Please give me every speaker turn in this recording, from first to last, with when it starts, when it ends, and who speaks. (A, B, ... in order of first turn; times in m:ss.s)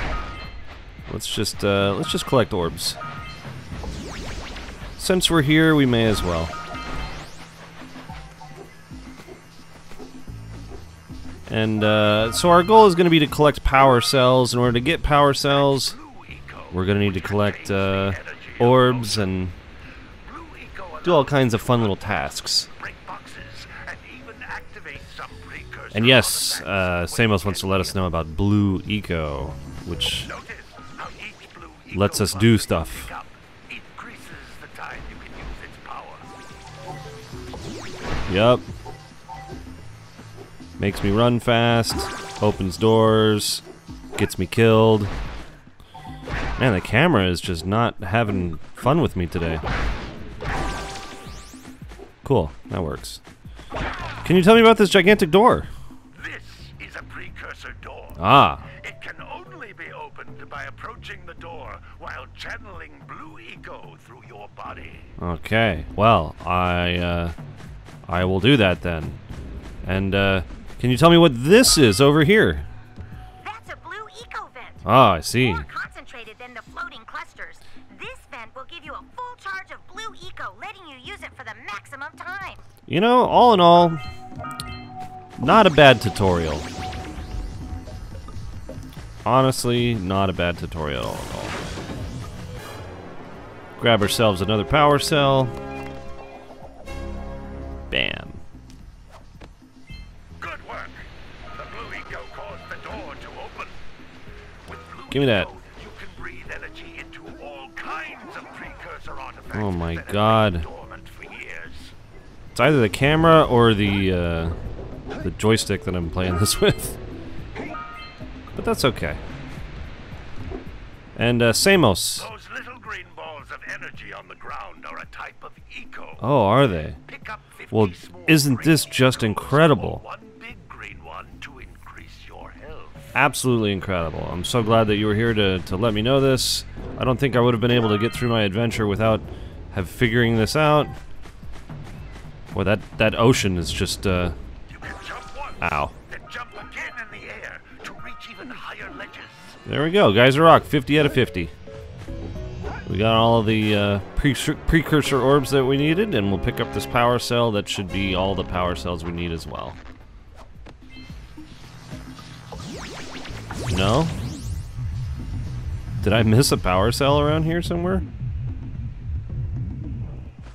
0:01.1-0:03.0 A
0:05.0-0:06.5 A
0:11.5-0:16.0 A
0:15.4-0:19.4 B
0:16.7-0:19.6 A
0:20.2-0:28.1 B
0:21.0-0:22.7 A
0:25.9-0:30.3 A
0:30.2-0:36.3 B
0:31.9-0:33.1 A
0:38.3-0:38.6 A
0:40.8-0:43.6 A
0:44.2-0:45.1 A
0:46.6-0:49.6 A
0:52.2-0:53.2 A
0:54.2-0:55.7 A
0:56.2-1:05.1 B
0:58.2-0:58.7 A
1:05.2-1:07.4 A
1:08.1-1:09.2 A
1:09.8-1:12.7 A
1:13.4-1:22.6 C
1:14.8-1:15.7 A
1:22.9-1:24.0 A
1:25.4-1:26.7 A
1:29.2-1:31.6 A
1:33.8-1:35.5 A
1:37.9-1:38.4 A
1:40.4-1:43.8 B
1:44.6-1:52.0 B
1:45.1-1:45.5 A
1:49.5-1:50.7 A
1:52.6-1:54.6 A
1:55.2-1:57.0 A
1:58.6-1:59.2 A
2:01.2-2:02.3 A
2:02.2-2:06.2 B
2:06.2-2:07.0 A
2:07.1-2:13.1 B
2:07.7-2:10.0 A
2:13.2-2:21.0 A
2:22.5-2:24.4 A
2:24.7-2:29.6 B
2:25.6-2:25.9 A
2:29.7-2:31.5 A
2:32.9-2:39.8 A
2:43.7-2:44.1 A
2:46.0-2:48.0 A